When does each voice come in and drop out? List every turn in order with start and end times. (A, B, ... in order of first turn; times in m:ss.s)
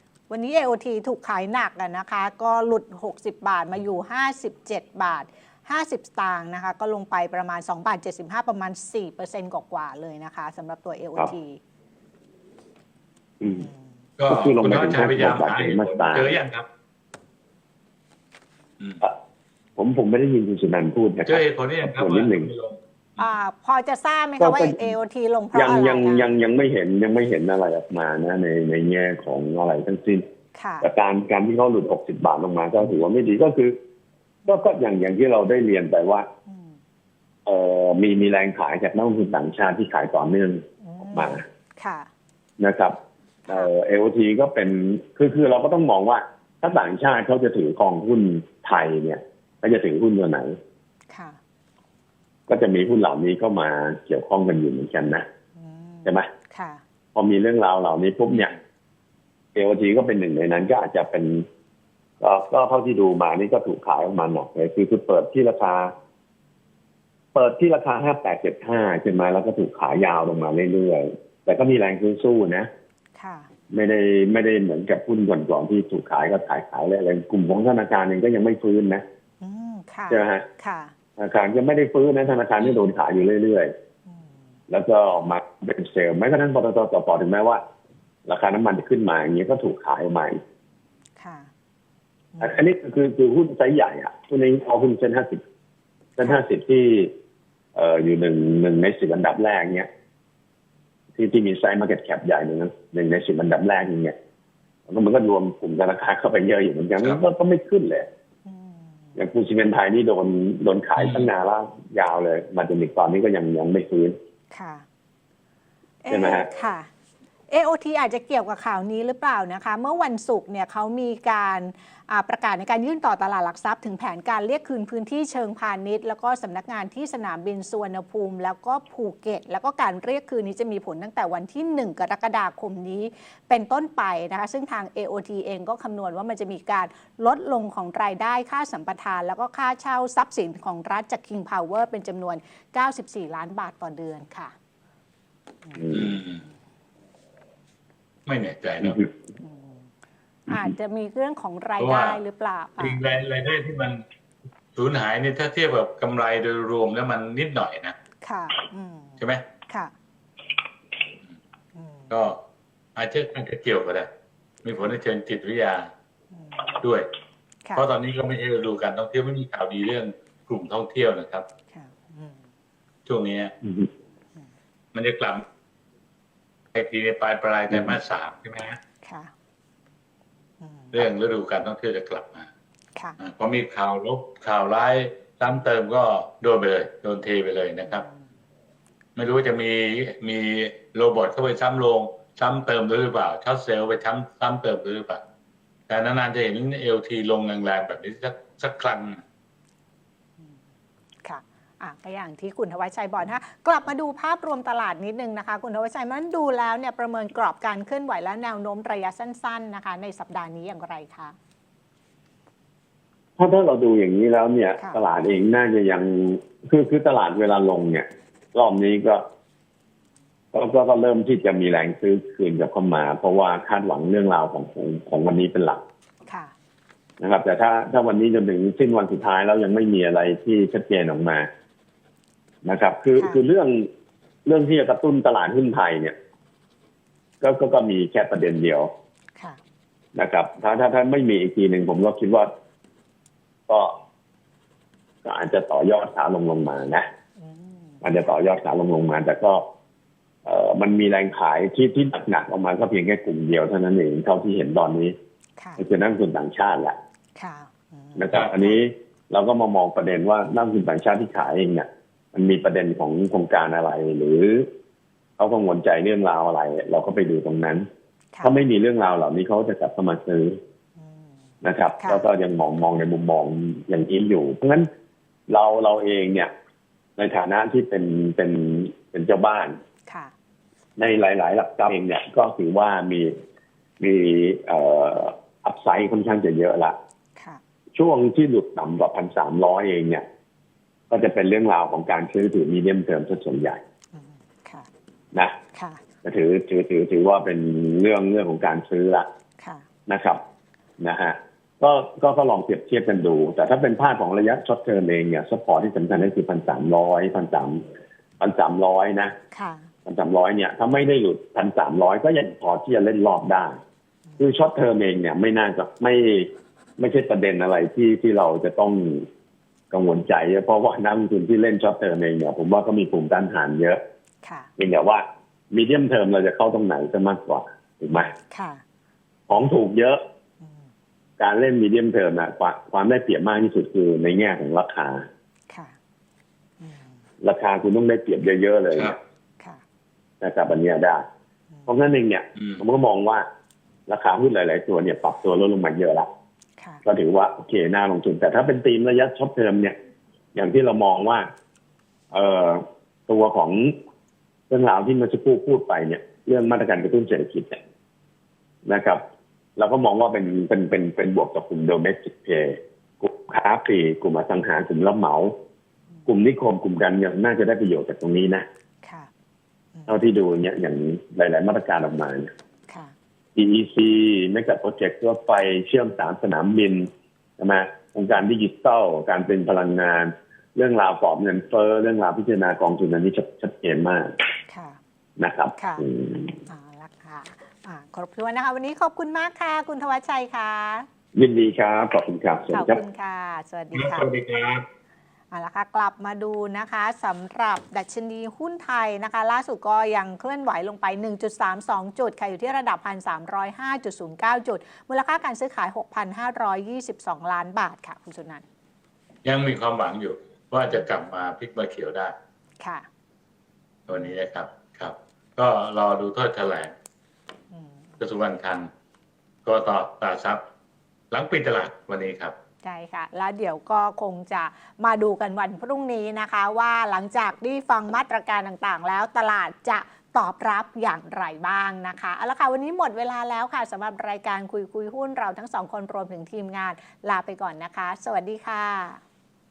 0:00.3-0:11.6 A
0:13.4-0:13.7 B
0:14.2-0:16.7 C
0:14.3-0:16.4 B
0:19.8-0:22.5 B
0:21.3-0:23.3 C
0:23.2-0:26.3 A
0:24.4-0:25.0 B
0:25.5-0:30.2 B
0:30.6-0:30.9 A
0:30.8-0:33.8 B
0:34.5-0:36.3 B
0:36.5-0:36.8 A
0:37.5-0:41.4 B
0:40.8-0:42.1 A
0:42.6-0:43.0 B
0:43.5-0:50.6 B
0:51.1-0:51.4 A
0:52.5-0:55.2 B
0:55.6-0:56.8 A
0:56.0-0:56.3 B
0:57.2-0:58.5 B
0:59.6-1:01.5 B
1:02.2-1:05.9 B
1:07.3-1:12.7 B
1:13.2-1:13.5 A
1:13.7-1:19.0 B
1:19.4-1:20.9 A
1:20.1-1:20.5 B
1:21.2-1:23.7 B
1:24.1-1:24.5 A
1:24.7-1:27.6 B
1:28.3-1:30.4 B
1:31.2-1:31.5 A
1:32.3-1:32.6 A
1:32.4-1:35.4 B
1:36.2-1:37.1 B
1:37.8-1:39.9 B
1:41.2-1:44.2 B
1:44.9-1:48.1 B
1:48.5-1:49.2 A
1:49.2-1:54.2 B
1:51.0-1:51.3 C
1:54.5-1:54.8 A
1:56.0-1:56.9 A
1:56.1-1:56.5 B
1:57.5-2:24.5 A
2:25.6-2:26.4 A
2:25.8-2:26.1 B
2:25.9-2:26.4 C
2:28.3-2:29.0 C
2:29.4-2:29.9 A
2:30.5-2:33.0 A
2:31.8-2:32.2 C
2:32.8-2:34.0 C
2:34.8-2:38.0 C
2:38.2-2:39.9 A
2:39.2-2:39.4 C
2:41.8-2:42.1 A
2:42.1-2:42.4 C
2:43.0-2:44.1 C
2:44.6-2:45.9 C
2:44.7-2:45.0 A
2:46.3-2:46.7 A
2:46.8-2:47.1 C
2:47.8-2:51.4 C
2:51.7-2:52.4 A
2:53.1-2:53.5 C
2:53.6-2:53.9 B
2:54.9-2:55.4 C
2:56.7-2:58.8 C
2:59.0-2:59.3 A
3:00.6-3:01.1 A
3:00.9-3:02.5 C
3:03.2-3:08.0 C
3:07.8-3:08.2 A
3:09.2-3:15.2 C
3:15.9-3:19.2 C
3:21.2-3:31.4 A
3:33.4-3:39.2 B
3:40.5-3:45.8 B
3:46.3-3:46.5 A
3:47.2-3:51.5 B
3:52.6-3:53.9 B
3:53.2-3:53.4 A
3:54.5-3:56.2 B
3:57.4-3:58.9 B
4:00.2-4:02.5 B
4:03.7-4:04.0 B
4:05.2-4:07.1 B
4:07.4-4:08.4 A
4:08.0-4:09.6 B
4:10.4-4:15.2 B
4:15.8-4:17.0 B
4:17.4-4:18.8 A
4:18.2-4:24.7 B
4:25.4-4:27.9 B
4:28.3-4:28.6 A
4:28.4-4:30.6 B
4:31.0-4:31.4 A
4:31.6-4:34.9 B
4:32.0-4:32.3 A
4:35.5-4:36.5 B
4:37.2-4:39.8 B
4:40.1-4:40.3 A
4:41.0-4:43.4 B
4:44.0-4:47.0 B
4:47.9-4:50.2 B
4:51.1-4:53.8 B
4:54.1-4:54.9 A
4:55.7-4:56.0 A
4:56.2-4:59.3 B
5:00.1-5:00.4 B
5:01.0-5:07.8 B
5:08.4-5:09.4 B
5:09.5-5:09.9 A
5:10.1-5:13.8 B
5:14.4-5:19.3 B
5:19.9-5:24.0 B
5:24.8-5:28.3 B
5:28.5-5:28.8 A
5:29.5-5:30.2 B
5:30.6-5:30.9 A
5:31.4-5:35.3 B
5:35.7-5:36.0 A
5:36.8-5:37.2 A
5:37.4-5:39.2 B
5:40.4-5:41.2 B
5:41.7-5:42.0 A
5:41.9-5:43.5 B
5:42.6-5:42.8 C
5:44.1-5:46.3 B
5:47.0-5:50.0 B
5:50.6-5:51.5 B
5:52.3-5:53.9 B
5:54.7-5:57.8 B
5:58.9-5:59.2 B
5:59.8-6:05.5 B
6:06.3-6:08.7 B
6:09.0-6:09.3 A
6:10.0-6:10.2 A
6:10.1-6:12.5 B
6:13.6-6:24.3 B
6:24.7-6:25.0 A
6:25.4-6:26.6 B
6:25.8-6:26.0 A
6:26.7-6:31.1 A
6:31.4-6:33.0 B
6:32.7-6:34.3 A
6:33.9-6:34.9 C
6:35.5-6:48.6 A
6:49.4-6:52.4 C
6:52.8-6:53.1 A
6:54.1-6:56.9 C
6:54.1-6:54.4 A
6:57.7-6:58.0 A
6:58.2-6:58.9 C
6:59.7-7:00.6 C
7:01.3-7:02.6 C
7:02.8-7:19.2 A